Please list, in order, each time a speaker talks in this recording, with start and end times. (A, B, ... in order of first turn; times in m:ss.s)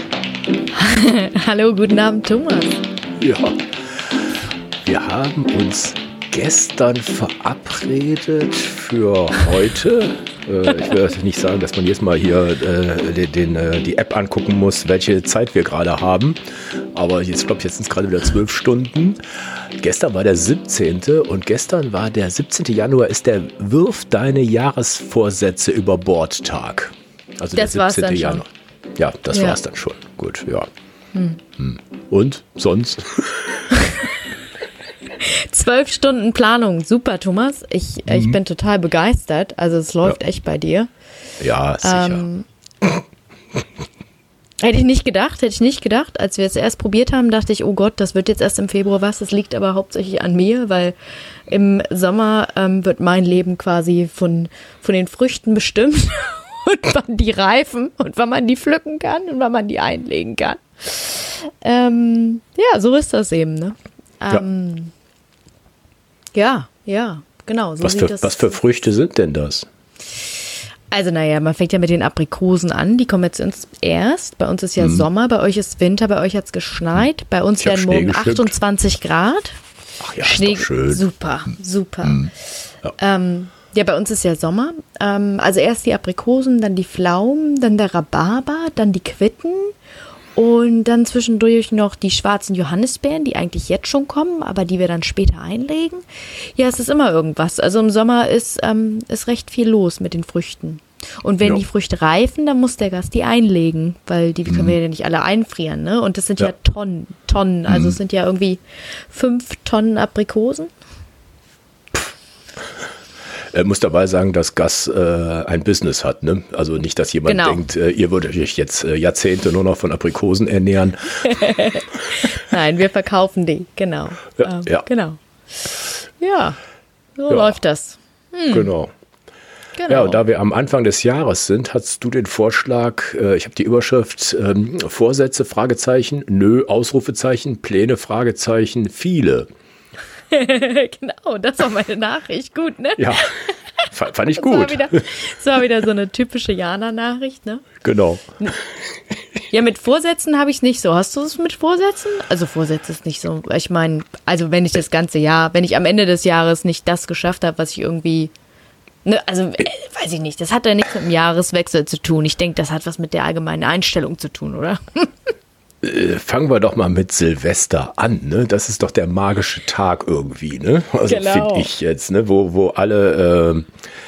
0:00.7-0:02.8 A
0:03.2-0:04.3 B
0:04.8-0:16.4 B
0:16.9-0:19.2 B
0:19.8-0:30.7 B
0:27.5-0:28.4 A
0:29.3-0:29.6 A
0:31.1-0:31.4 A
0:31.6-0:33.7 B
0:33.7-0:34.1 A
0:35.2-0:40.9 A
0:38.1-0:38.4 B
0:41.4-0:42.2 B
0:41.8-0:42.5 A
0:44.6-0:51.0 A
0:51.5-1:04.9 A
1:06.3-1:08.5 A
1:07.8-1:09.7 B
1:10.9-1:19.6 A
1:14.8-1:15.0 B
1:17.6-1:18.5 B
1:20.0-1:21.0 B
1:20.2-1:22.3 A
1:22.0-1:22.3 B
1:23.0-1:29.7 A
1:30.4-1:36.0 A
1:36.6-1:50.7 A
1:44.5-1:44.7 B
1:47.7-1:48.0 B
1:53.5-2:01.4 B
1:57.3-1:57.6 A
2:01.2-2:05.2 A
2:04.4-2:04.8 B
2:06.2-2:06.6 A
2:07.2-2:08.7 A
2:07.3-2:07.6 B
2:08.5-2:08.9 B
2:09.8-2:10.2 A
2:09.9-2:19.5 B
2:20.3-2:27.7 A
2:23.0-2:23.3 B
2:23.9-2:25.0 B
2:27.8-2:28.4 B
2:29.5-2:38.3 A
2:39.0-2:45.1 A
2:45.8-2:53.7 B
2:51.0-2:51.7 A